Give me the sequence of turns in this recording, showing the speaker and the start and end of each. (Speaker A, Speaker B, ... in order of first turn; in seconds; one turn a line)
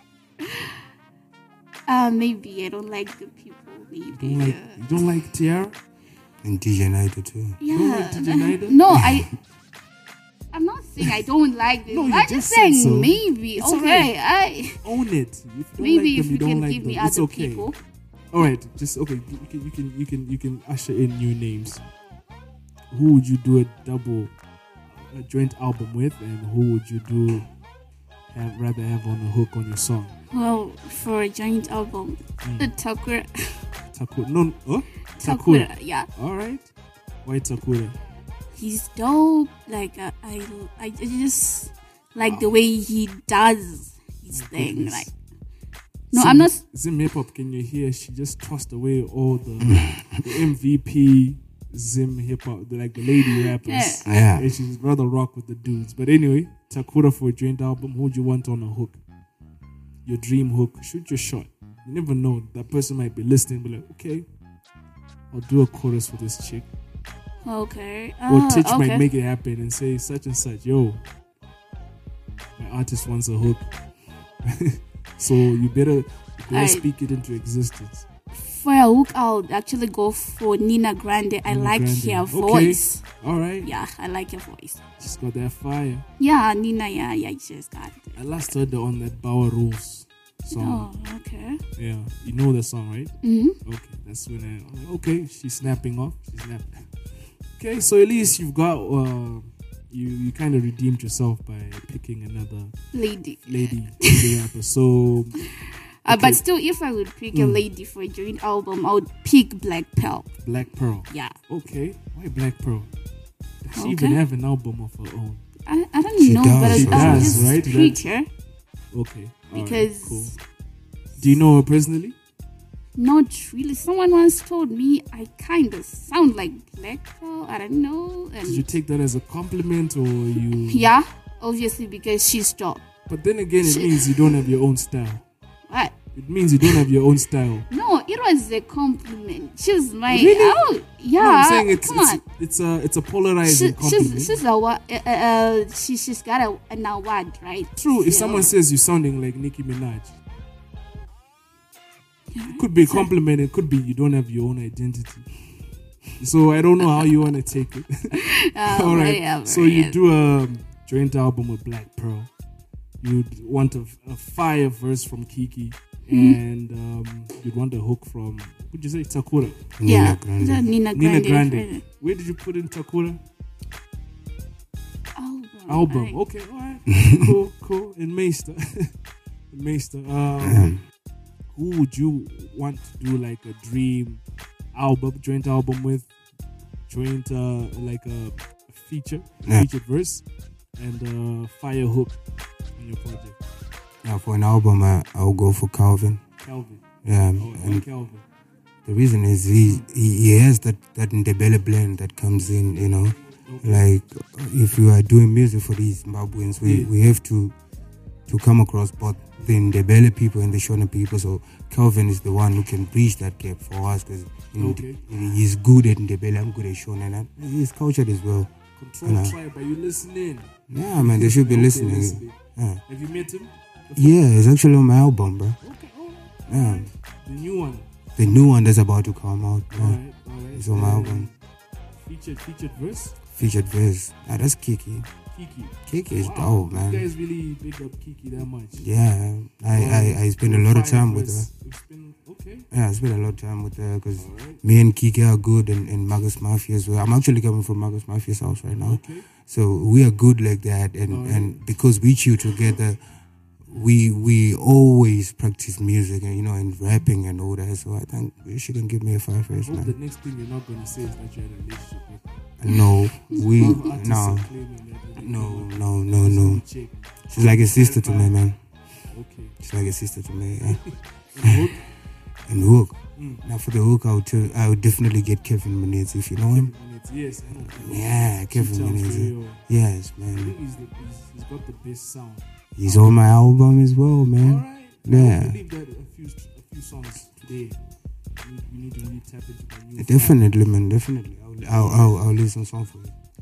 Speaker A: 1.9-4.8
Speaker B: 4.1-5.8
Speaker C: 6.4-7.6
Speaker A: 7.6-9.3
Speaker B: 7.7-8.8
Speaker C: 8.9-9.3
Speaker A: 10.5-14.8
Speaker B: 11.9-14.1
Speaker B: 14.8-17.7
Speaker A: 15.8-17.8
Speaker B: 18.3-21.8
Speaker B: 22.9-24.3
Speaker B: 24.9-27.4
Speaker B: 28.3-30.1
Speaker A: 30.3-33.6
Speaker B: 32.4-32.7
Speaker B: 33.9-36.6
Speaker A: 35.2-36.1
Speaker B: 37.2-38.0
Speaker A: 38.5-45.1
Speaker B: 42.2-42.6
Speaker B: 44.3-45.1
Speaker A: 46.1-46.6
Speaker B: 46.1-59.0
Speaker C: 49.6-50.2
Speaker A: 53.2-54.0
Speaker C: 54.0-54.4
Speaker B: 60.0-64.2
Speaker B: 65.3-66.7
Speaker A: 67.4-69.1
Speaker B: 68.3-71.0
Speaker B: 72.6-73.7
Speaker B: 74.5-78.0
Speaker A: 76.5-76.8
Speaker A: 78.3-83.0
Speaker B: 81.5-83.7
Speaker A: 83.6-84.8
Speaker B: 85.0-86.0
Speaker A: 86.2-88.2
Speaker B: 88.2-90.9
Speaker A: 90.5-91.6
Speaker B: 91.8-93.1
Speaker A: 93.2-93.6
Speaker B: 93.6-96.9
Speaker B: 97.5-102.7
Speaker A: 102.9-104.4
Speaker B: 103.5-105.4
Speaker A: 106.0-110.3
Speaker B: 106.1-106.4
Speaker B: 107.3-107.6
Speaker B: 110.4-112.9
Speaker A: 111.1-111.3
Speaker B: 113.6-115.4
Speaker A: 113.7-114.2
Speaker A: 115.7-118.3
Speaker C: 116.2-117.5
Speaker B: 116.6-118.0
Speaker B: 118.9-120.3
Speaker A: 119.5-120.4
Speaker B: 121.2-122.2
Speaker A: 123.0-128.7
Speaker B: 128.4-130.9
Speaker A: 130.6-132.8
Speaker B: 133.1-135.2
Speaker A: 133.6-134.1
Speaker A: 135.7-135.9
Speaker B: 136.1-137.7
Speaker A: 137.7-142.2
Speaker B: 140.1-140.6
Speaker B: 141.2-144.4
Speaker A: 143.4-148.5
Speaker B: 147.8-150.2
Speaker A: 152.3-153.1
Speaker B: 152.5-155.3
Speaker B: 156.2-162.3
Speaker A: 156.8-157.2
Speaker A: 158.2-160.0
Speaker B: 163.0-169.7
Speaker A: 166.1-166.4
Speaker C: 169.8-170.8
Speaker A: 169.8-171.8
Speaker B: 170.9-173.2
Speaker A: 175.2-176.2
Speaker B: 175.7-178.9
Speaker C: 176.9-177.2
Speaker B: 179.5-180.7
Speaker C: 180.4-180.8
Speaker B: 181.5-184.2
Speaker B: 184.7-186.1
Speaker B: 186.9-190.2
Speaker B: 190.8-192.2
Speaker B: 192.8-193.4
Speaker C: 194.0-196.2
Speaker B: 196.4-196.8
Speaker C: 197.0-197.8
Speaker B: 197.3-198.2
Speaker C: 198.8-207.5
Speaker B: 199.6-199.9
Speaker B: 203.5-203.9
Speaker B: 206.6-206.9
Speaker C: 208.3-218.5
Speaker B: 214.5-215.0
Speaker B: 218.8-224.2
Speaker C: 219.0-219.3
Speaker C: 220.7-222.8
Speaker C: 223.9-225.6
Speaker B: 225.6-227.8
Speaker C: 226.5-226.9
Speaker C: 228.2-230.0
Speaker B: 229.7-231.3
Speaker C: 230.5-231.3
Speaker B: 232.0-233.2
Speaker C: 233.3-235.1
Speaker B: 235.3-238.8
Speaker C: 235.9-237.1
Speaker C: 238.8-241.5
Speaker B: 239.7-242.7
Speaker C: 242.7-253.0
Speaker B: 244.2-244.6
Speaker B: 248.8-249.3
Speaker B: 251.1-251.6
Speaker C: 253.7-259.9
Speaker B: 259.5-262.2
Speaker C: 262.6-264.5
Speaker A: 262.7-263.6
Speaker B: 263.2-268.4
Speaker C: 265.1-266.6
Speaker C: 267.3-268.6
Speaker B: 269.1-269.6
Speaker C: 269.6-270.8
Speaker B: 270.7-271.9
Speaker C: 272.5-276.7
Speaker B: 273.1-273.4
Speaker B: 276.4-279.6
Speaker C: 277.6-280.6
Speaker B: 280.3-283.3
Speaker C: 282.8-285.6
Speaker B: 284.4-287.8
Speaker B: 288.4-290.4
Speaker C: 289.9-293.1
Speaker B: 291.6-292.2